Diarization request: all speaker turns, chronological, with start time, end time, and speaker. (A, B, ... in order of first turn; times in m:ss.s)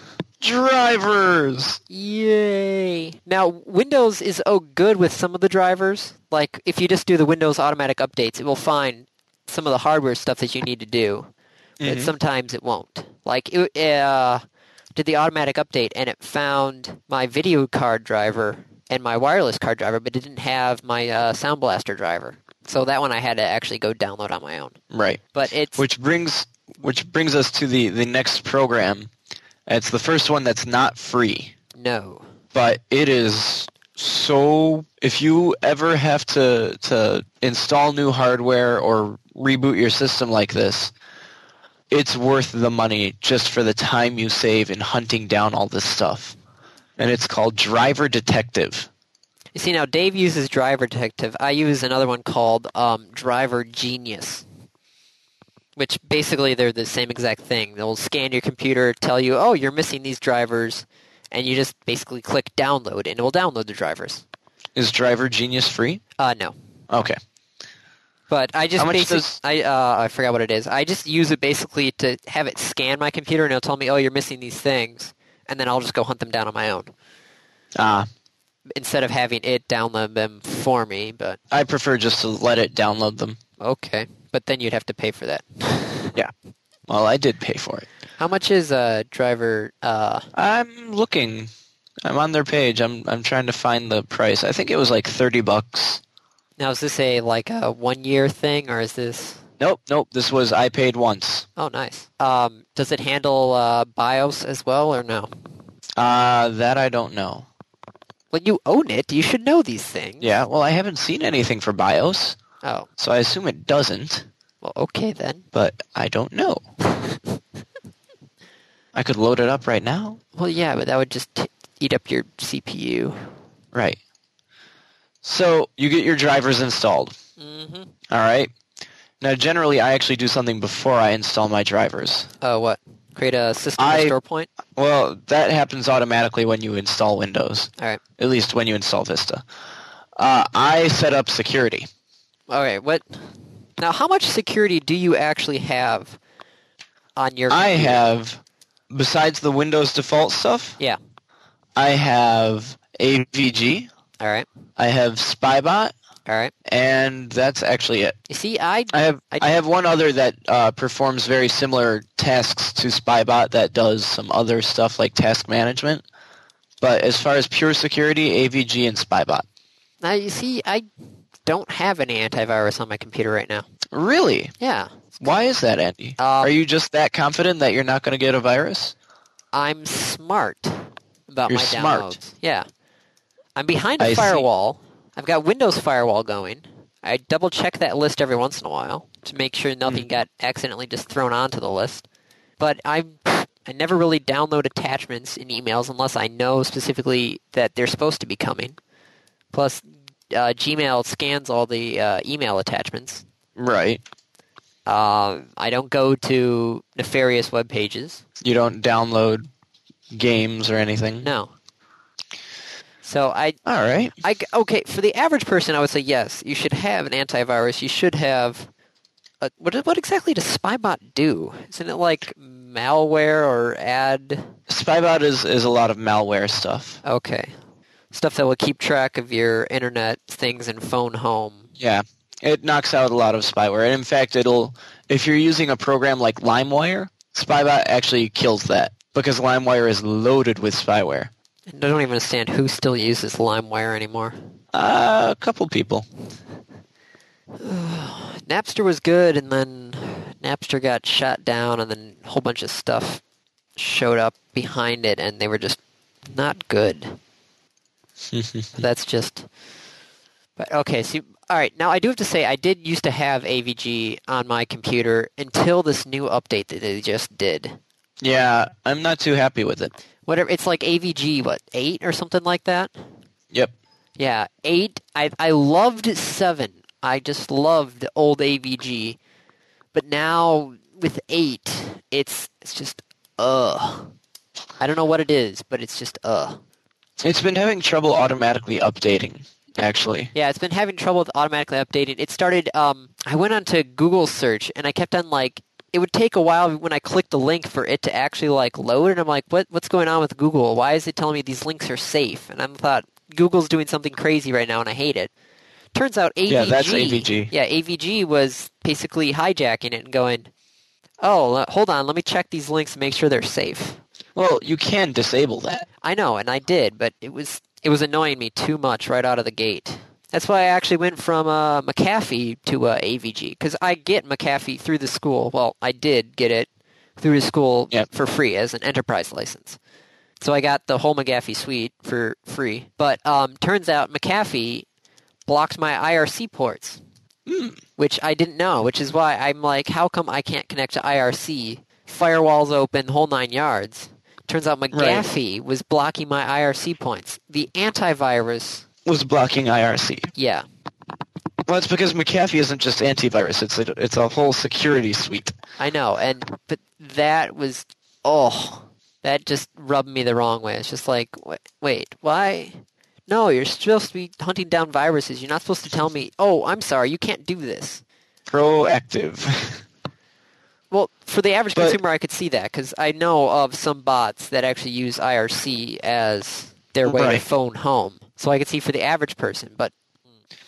0:00.4-0:01.8 A
0:01.9-0:11.3 B
0:11.8-0:12.1 A
0:11.8-0:14.4 B
0:14.9-0:24.8 B
0:24.9-0:25.2 A
0:25.3-0:25.8 B
0:25.8-0:29.1 A
0:29.7-0:31.5 A
0:31.8-0:32.2 B
0:32.5-0:40.9 A
0:41.9-0:46.4 A
0:47.0-0:48.9 A
0:49.5-0:54.4 B
0:55.8-1:04.2 B
1:04.8-1:06.0 A
1:06.2-1:06.5 B
1:06.9-1:07.2 A
1:08.3-1:16.9 B
1:08.8-1:09.4 A
1:17.8-1:18.1 A
1:18.7-1:21.4 B
1:21.5-1:23.4 A
1:23.6-1:26.1 B
1:26.9-1:27.8 A
1:28.2-1:30.3 B
1:30.3-1:31.5 A
1:32.0-1:36.0 A
1:36.6-1:39.4 B
1:39.6-1:41.5 A
1:41.6-1:45.3 B
1:46.0-1:47.5 A
1:48.3-1:50.3 B
1:50.2-1:52.4 A
1:52.6-1:52.9 B
1:53.0-1:54.3 A
1:54.6-1:55.5 B
1:55.5-1:56.6 A
1:59.0-2:00.2 A
2:00.3-2:03.3 B
2:03.7-2:04.0 A
2:05.2-2:07.1 A
2:07.4-2:07.9 B
2:08.1-2:08.5 A
2:09.2-2:12.3 A
2:12.4-2:14.5 B
2:13.8-2:14.1 A
2:14.8-2:19.4 A
2:20.2-2:21.9 A
2:22.5-2:23.2 B
2:23.8-2:26.2 B
2:27.2-2:28.0 B
2:27.5-2:30.8 A
2:31.8-2:33.9 A
2:34.2-2:34.5 B
2:34.8-2:35.9 A
2:36.3-2:36.5 B
2:36.6-2:38.2 A
2:38.3-2:39.6 B
2:38.9-2:46.0 A
2:46.8-2:49.4 A
2:50.0-2:50.8 B
2:51.5-2:53.7 B
2:53.9-2:54.5 A
2:54.6-2:55.1 B
2:55.2-2:58.9 A
2:56.2-2:56.5 B
2:59.5-3:02.6 B
3:01.5-3:02.2 A
3:03.6-3:12.0 B
3:04.0-3:04.5 A
3:12.6-3:18.8 B
3:19.5-3:23.2 B
3:23.6-3:24.0 A
3:24.8-3:28.2 B
3:28.4-3:29.5 A
3:30.1-3:31.3 A
3:31.2-3:31.5 B
3:33.0-3:33.6 B
3:33.6-3:34.1 A
3:34.2-3:38.7 B
3:39.4-3:44.5 B
3:44.7-3:47.0 A
3:47.0-3:47.5 B
3:48.1-3:51.7 B
3:51.8-4:01.3 A
4:01.7-4:04.4 B
4:04.7-4:06.0 A
4:07.6-4:13.2 B
4:13.8-4:15.8 B
4:16.3-4:17.2 B
4:18.3-4:18.8 A
4:18.8-4:19.5 B
4:20.6-4:27.8 B
4:28.2-4:29.9 A
4:30.2-4:32.9 B
4:34.2-4:39.2 B
4:39.9-4:44.1 B
4:44.8-4:46.6 B
4:47.2-4:50.3 A
4:50.3-5:05.3 B
5:06.0-5:10.5 B
5:06.5-5:07.5 A
5:11.2-5:14.0 B
5:14.3-5:15.9 A
5:16.0-5:29.8 B
5:30.4-5:34.8 B
5:35.5-5:37.0 B
5:37.5-5:37.8 A
5:38.0-5:48.8 B
5:44.9-5:45.3 A
5:49.0-5:50.3 A
5:50.3-5:50.6 B
5:51.7-5:55.5 A
5:55.8-6:08.0 B
6:08.5-6:09.8 A
6:10.9-6:19.9 B
6:17.0-6:17.4 A